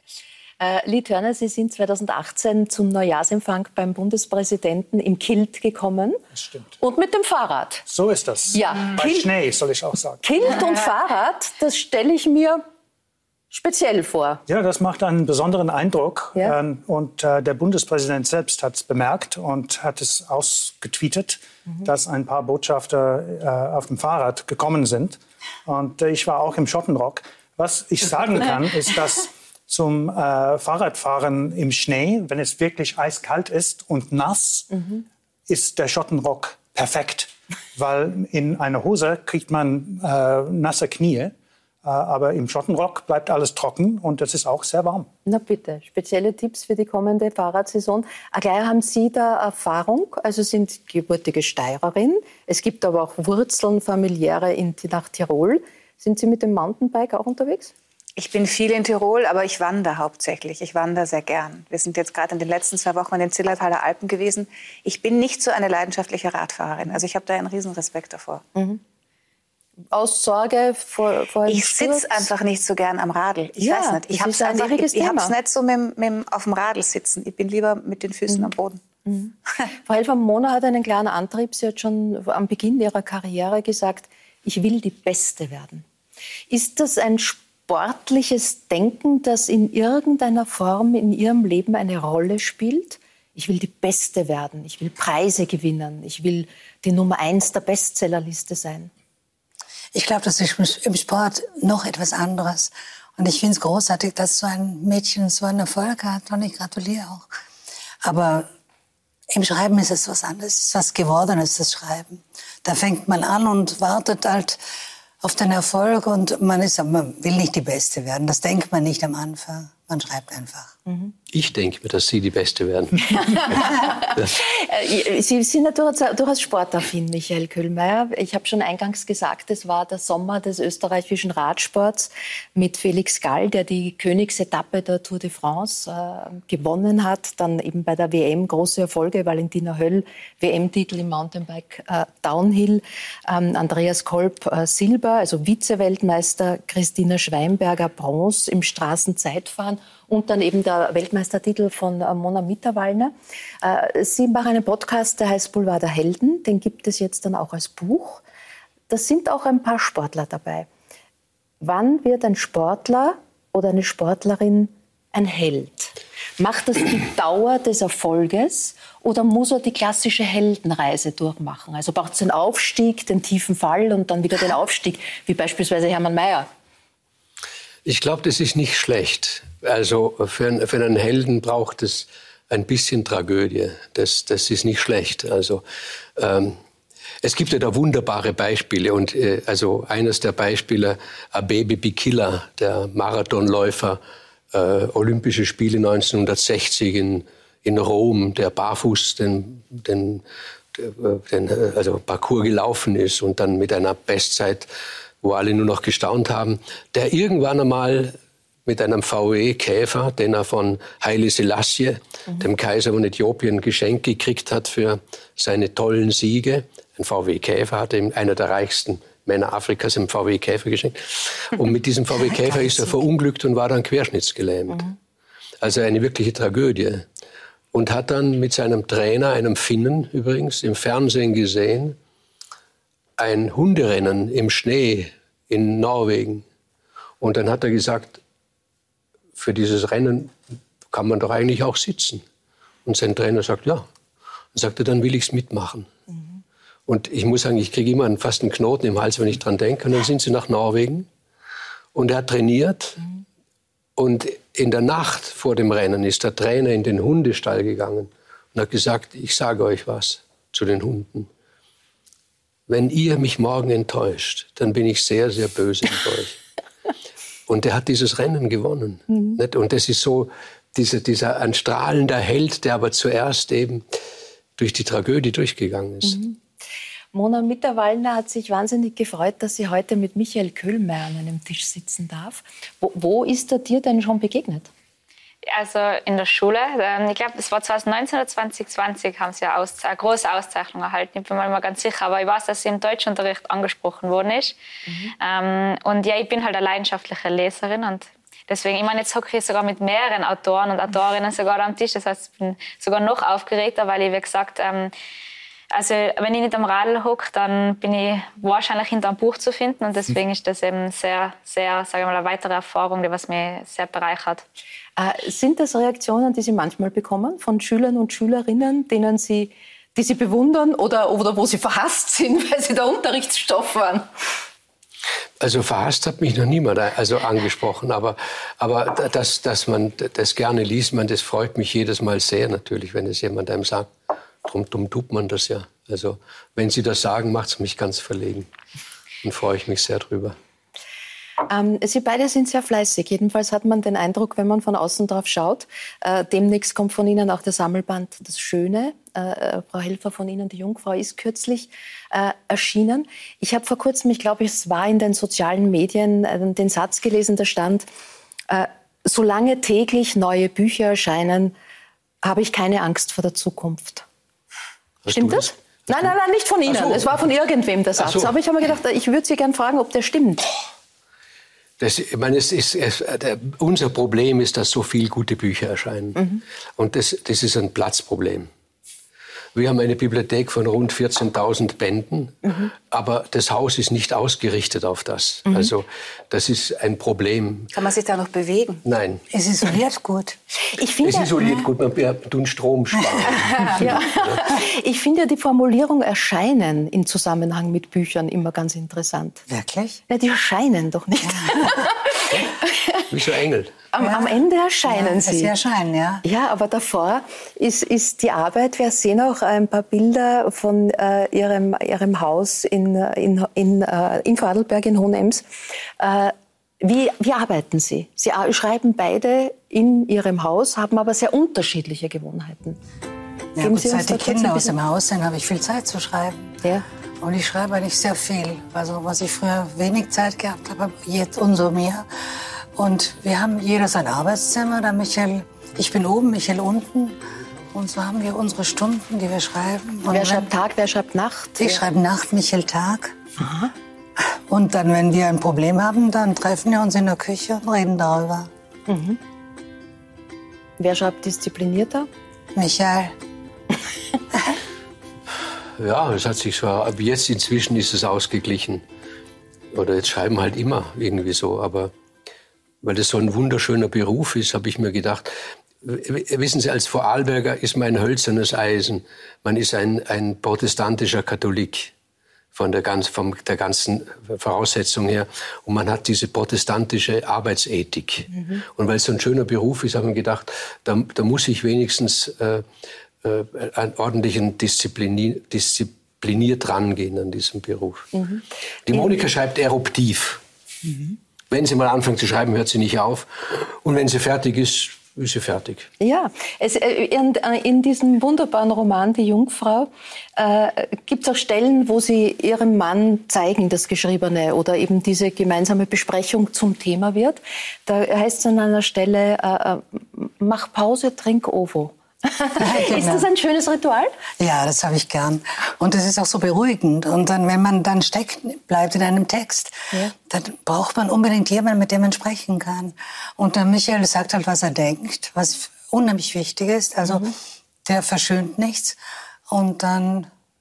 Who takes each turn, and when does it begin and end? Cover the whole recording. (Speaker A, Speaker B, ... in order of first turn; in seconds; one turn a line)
Speaker A: 0.6-6.2
Speaker B: 6.3-6.7
Speaker A: 6.8-7.8
Speaker B: 7.9-10.2
Speaker A: 8.5-9.3
Speaker A: 10.2-12.6
Speaker A: 13.5-14.4
Speaker B: 14.5-34.9
Speaker B: 35.5-45.1
Speaker A: 45.3-57.7
Speaker C: 58.2-68.4
Speaker A: 68.6-68.8
Speaker A: 69.9-72.3
Speaker C: 71.5-78.8
Speaker A: 73.6-75.3
Speaker A: 79.1-79.3
Speaker A: 79.8-85.8
Speaker A: 86.5-98.9
Speaker D: 99.9-107.3
Speaker D: 108.0-108.5
Speaker D: 109.3-114.6
Speaker D: 115.2-120.8
Speaker E: 121.3-124.4
Speaker A: 123.1-158.2
Speaker A: 158.9-160.7
Speaker A: 161.6-176.5
Speaker E: 177.8-185.6
Speaker E: 186.2-186.6
Speaker E: 187.2-194.0
Speaker E: 194.5-200.2
Speaker E: 200.8-204.7
Speaker E: 205.2-224.9
Speaker D: 222.3-223.0
Speaker E: 225.6-227.1
Speaker E: 227.7-232.0
Speaker E: 233.2-236.4
Speaker E: 237.2-238.2
Speaker E: 239.4-240.3
Speaker E: 240.9-242.2
Speaker E: 242.8-243.9
Speaker E: 244.5-245.9
Speaker E: 246.9-251.1
Speaker E: 251.9-253.0
Speaker E: 254.0-261.3
Speaker E: 262.7-266.4
Speaker E: 267.5-273.9
Speaker A: 269.1-269.4
Speaker E: 274.6-276.2
Speaker A: 276.0-276.4
Speaker A: 277.1-284.7
Speaker F: 285.4-294.6
Speaker A: 294.9-295.1
Speaker F: 295.2-304.9
Speaker F: 305.7-314.4
Speaker A: 315.0-324.1
Speaker E: 325.4-333.9
Speaker E: 334.4-338.5
Speaker E: 339.2-340.4
Speaker A: 341.5-357.9
Speaker A: 358.5-361.5
Speaker A: 362.2-364.1
Speaker E: 365.1-366.1
Speaker A: 365.1-370.6
Speaker E: 366.7-367.2
Speaker E: 368.0-368.4
Speaker E: 371.8-376.2
Speaker A: 376.2-376.4
Speaker E: 376.8-378.5
Speaker E: 379.6-387.7
Speaker A: 382.5-382.7
Speaker A: 385.5-385.7
Speaker C: 387.7-388.8
Speaker E: 388.9-389.2
Speaker D: 389.3-390.4
Speaker A: 390.7-391.6
Speaker E: 391.0-394.4
Speaker D: 393.1-393.8
Speaker A: 393.5-399.4
Speaker D: 399.5-400.0
Speaker A: 400.1-403.1
Speaker D: 401.2-401.9
Speaker E: 403.1-403.8
Speaker A: 403.9-405.5
Speaker D: 404.0-406.2
Speaker A: 406.2-415.5
Speaker A: 416.0-422.8
Speaker D: 423.6-426.6
Speaker A: 423.6-424.7
Speaker D: 427.2-432.1
Speaker D: 432.8-437.2
Speaker D: 437.7-440.5
Speaker A: 440.1-441.8
Speaker D: 441.6-443.2
Speaker A: 443.4-443.7
Speaker D: 444.2-448.5
Speaker A: 448.9-449.2
Speaker A: 450.8-452.1
Speaker D: 452.6-453.1
Speaker E: 455.8-458.8
Speaker E: 459.7-461.9
Speaker E: 462.8-471.9
Speaker E: 472.5-482.7
Speaker A: 478.3-478.6
Speaker E: 483.2-488.1
Speaker A: 488.1-489.1
Speaker E: 488.9-490.4
Speaker E: 491.5-495.9
Speaker A: 496.0-514.1
Speaker D: 512.6-513.3
Speaker D: 514.4-529.0
Speaker D: 529.5-530.3